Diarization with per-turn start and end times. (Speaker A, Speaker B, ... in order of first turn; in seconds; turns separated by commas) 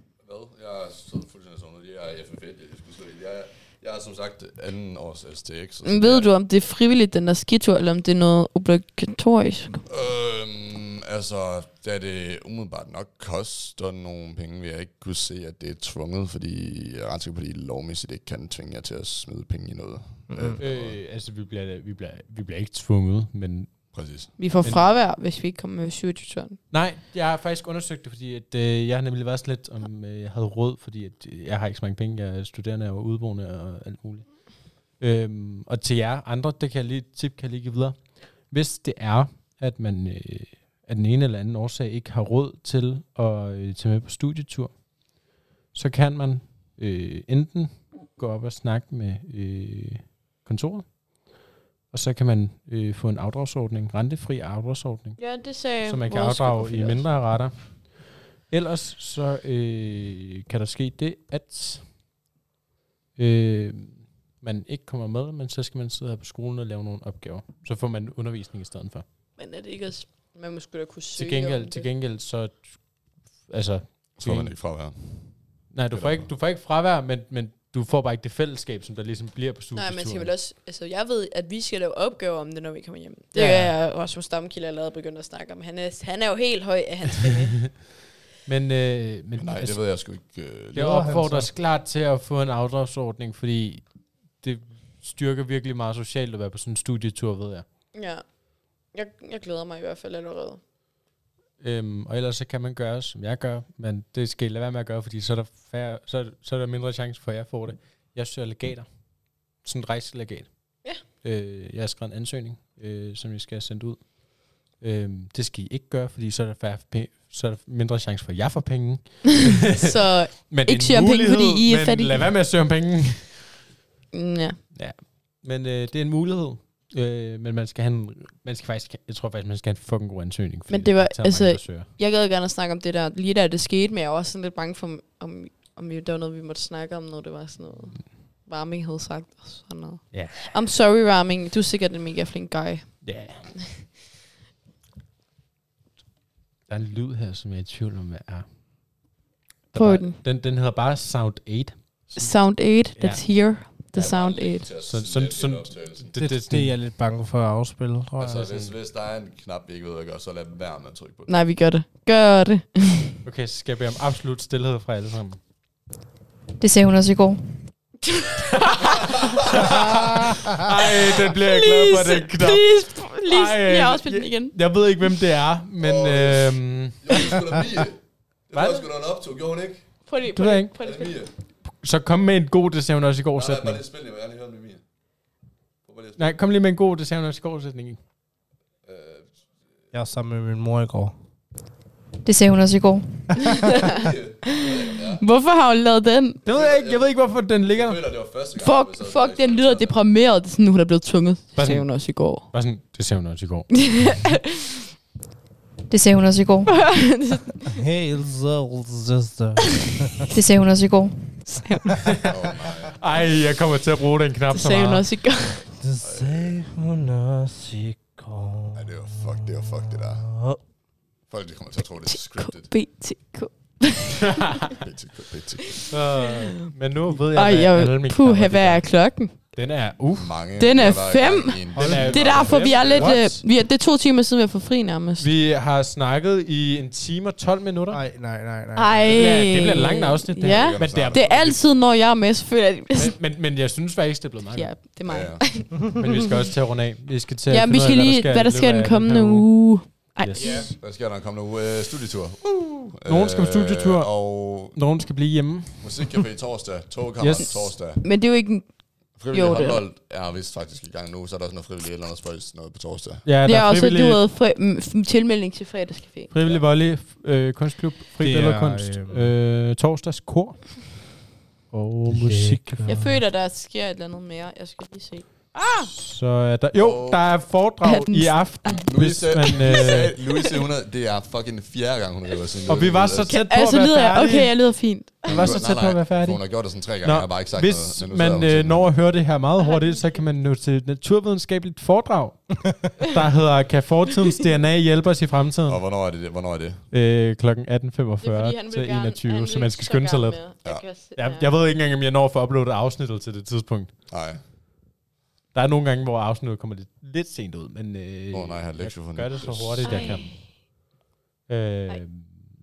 Speaker A: 0.2-6.3, Speaker B: 5.8-9.8, Speaker A: 9.9-21.0, Speaker C: 20.3-20.6, Speaker D: 20.6-24.0, Speaker A: 23.9-24.3, Speaker B: 24.4-26.6, Speaker D: 26.7-44.9, Speaker D: 45.7-51.0, Speaker D: 51.9-57.5, Speaker B: 55.2-57.0, Speaker D: 58.5-61.9, Speaker D: 63.2-69.0, Speaker B: 69.4-71.9, Speaker D: 71.2-74.5, Speaker A: 74.2-76.3, Speaker D: 75.7-80.3, Speaker B: 79.8-87.6, Speaker D: 83.3-83.7, Speaker D: 88.5-89.8, Speaker A: 89.4-91.1, Speaker D: 90.8-93.8, Speaker C: 90.8-91.5, Speaker D: 94.4-97.7, Speaker B: 97.9-98.2, Speaker B: 98.9-100.6, Speaker D: 101.6-108.9, Speaker D: 109.6-123.5, Speaker B: 119.7-122.3, Speaker B: 124.1-124.6, Speaker D: 124.8-131.9, Speaker B: 130.7-143.2, Speaker D: 140.1-140.5, Speaker D: 143.0-143.5, Speaker D: 146.7-148.4, Speaker D: 149.7-152.3, Speaker B: 149.7-150.2, Speaker B: 152.2-154.7, Speaker D: 153.0-153.2, Speaker A: 153.9-156.1, Speaker D: 154.9-156.8, Speaker C: 156.2-158.5, Speaker A: 158.2-161.4, Speaker D: 158.4-158.8, Speaker B: 161.3-163.1, Speaker D: 163.2-165.4, Speaker E: 166.6-167.7, Speaker B: 168.1-169.2, Speaker D: 168.5-177.3, Speaker A: 168.8-169.7, Speaker B: 171.3-174.5, Speaker A: 175.8-179.9, Speaker D: 178.5-178.9, Speaker B: 180.1-181.2, Speaker D: 180.4-180.7, Speaker A: 180.8-181.3, Speaker D: 181.8-183.8, Speaker A: 183.4-184.8, Speaker A: 185.8-186.3, Speaker D: 186.2-188.0, Speaker A: 188.9-189.3, Speaker C: 189.9-191.1, Speaker E: 192.2-193.7, Speaker B: 193.4-196.4, Speaker A: 193.8-195.2, Speaker D: 196.4-198.0, Speaker A: 196.5-197.2, Speaker A: 197.7-200.0, Speaker B: 198.6-202.5, Speaker D: 201.6-204.2, Speaker B: 203.8-204.5, Speaker E: 205.9-206.9, Speaker B: 206.7-207.8, Speaker C: 207.7-210.3, Speaker E: 210.3-211.3, Speaker B: 211.5-211.9, Speaker D: 212.1-212.3, Speaker A: 212.3-213.0, Speaker D: 212.9-215.1, Speaker B: 214.5-215.6, Speaker C: 215.8-220.6, Speaker A: 216.0-216.6, Speaker A: 218.7-220.3, Speaker A: 221.3-222.7, Speaker B: 222.1-224.7, Speaker A: 224.7-225.8, Speaker B: 225.7-226.3, Speaker D: 225.9-228.8, Speaker B: 227.3-229.4, Speaker D: 229.6-230.3, Speaker A: 230.1-233.4, Speaker B: 230.6-235.3, Speaker C: 231.7-232.1, Speaker D: 231.8-233.3, Speaker D: 235.2-238.0, Speaker C: 237.9-239.8, Speaker B: 238.8-243.1, Speaker D: 239.1-241.5, Speaker A: 240.4-241.6, Speaker D: 242.9-244.8, Speaker B: 244.6-246.3, Speaker A: 245.1-245.6, Speaker D: 245.9-249.5, Speaker B: 247.5-250.7, Speaker D: 250.2-250.6, Speaker C: 250.4-250.7, Speaker A: 250.8-254.8, Speaker D: 253.1-256.1, Speaker A: 255.8-258.0, Speaker D: 257.2-257.7, Speaker B: 258.0-259.8, Speaker A: 259.2-263.3, Speaker D: 263.2-264.2, Speaker B: 263.4-266.3, Speaker D: 266.3-271.0, Speaker C: 268.2-269.4, Speaker D: 271.7-273.0, Speaker C: 272.1-273.2, Speaker B: 272.9-275.9, Speaker D: 275.9-280.2, Speaker A: 276.7-277.5, Speaker B: 277.8-278.9, Speaker A: 278.7-283.3, Speaker B: 279.5-280.4, Speaker D: 282.7-284.5, Speaker B: 283.3-285.6, Speaker D: 285.2-295.8, Speaker A: 285.3-288.9, Speaker B: 289.6-290.1, Speaker A: 295.7-296.8, Speaker D: 296.9-300.4, Speaker B: 298.2-301.5, Speaker D: 301.1-303.9, Speaker A: 304.1-304.4, Speaker D: 305.5-310.4, Speaker A: 308.3-310.2, Speaker B: 309.9-310.4, Speaker D: 311.5-312.5